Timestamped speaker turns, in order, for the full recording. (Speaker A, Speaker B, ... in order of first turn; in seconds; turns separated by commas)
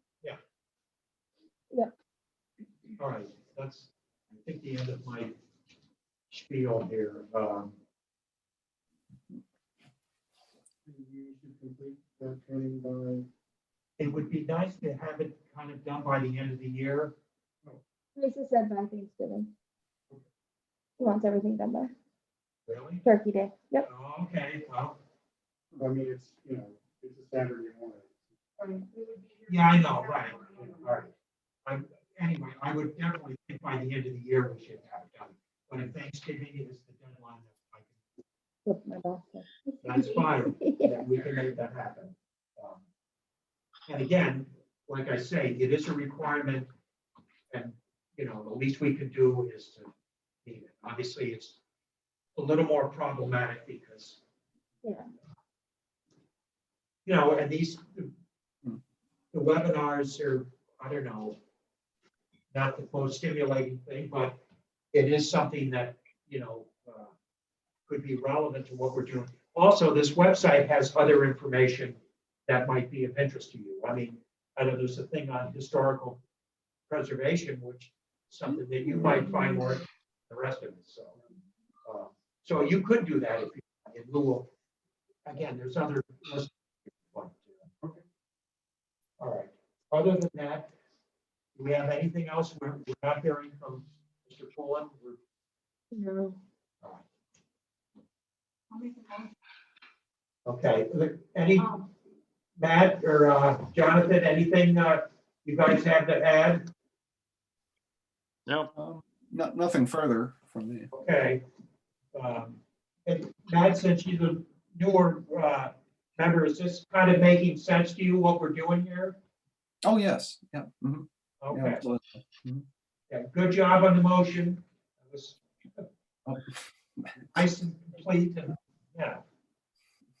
Speaker A: 3.0-5.3, Speaker A: 6.3-7.7, Speaker B: 10.8-13.3, Speaker A: 14.0-17.1, Speaker C: 18.1-19.5, Speaker C: 21.0-21.9, Speaker A: 22.7-23.0, Speaker C: 23.0-23.9, Speaker A: 23.8-25.0, Speaker B: 25.8-28.2, Speaker D: 28.6-30.9, Speaker A: 29.5-31.1, Speaker B: 30.5-30.8, Speaker A: 31.6-38.0, Speaker C: 38.6-41.0, Speaker A: 39.8-42.8, Speaker A: 43.9-46.7, Speaker A: 47.5-49.9, Speaker A: 50.4-51.6, Speaker A: 52.3-54.2, Speaker A: 57.0-58.1, Speaker A: 59.3-61.4, Speaker A: 62.5-64.4, Speaker A: 64.9-67.1, Speaker A: 67.9-76.2, Speaker A: 76.9-81.2, Speaker A: 81.8-84.5, Speaker A: 85.2-87.7, Speaker A: 89.2-90.7, Speaker A: 91.5-95.2, Speaker C: 95.9-96.4, Speaker D: 98.7-99.3, Speaker A: 100.5-101.7, Speaker D: 101.6-101.9, Speaker A: 102.6-106.7, Speaker E: 108.7-110.9, Speaker A: 110.9-111.4, Speaker A: 112.1-119.2, Speaker E: 119.8-122.6, Speaker A: 121.4-121.8, Speaker A: 123.1-125.8, Speaker E: 126.2-127.2, Speaker A: 127.3-129.2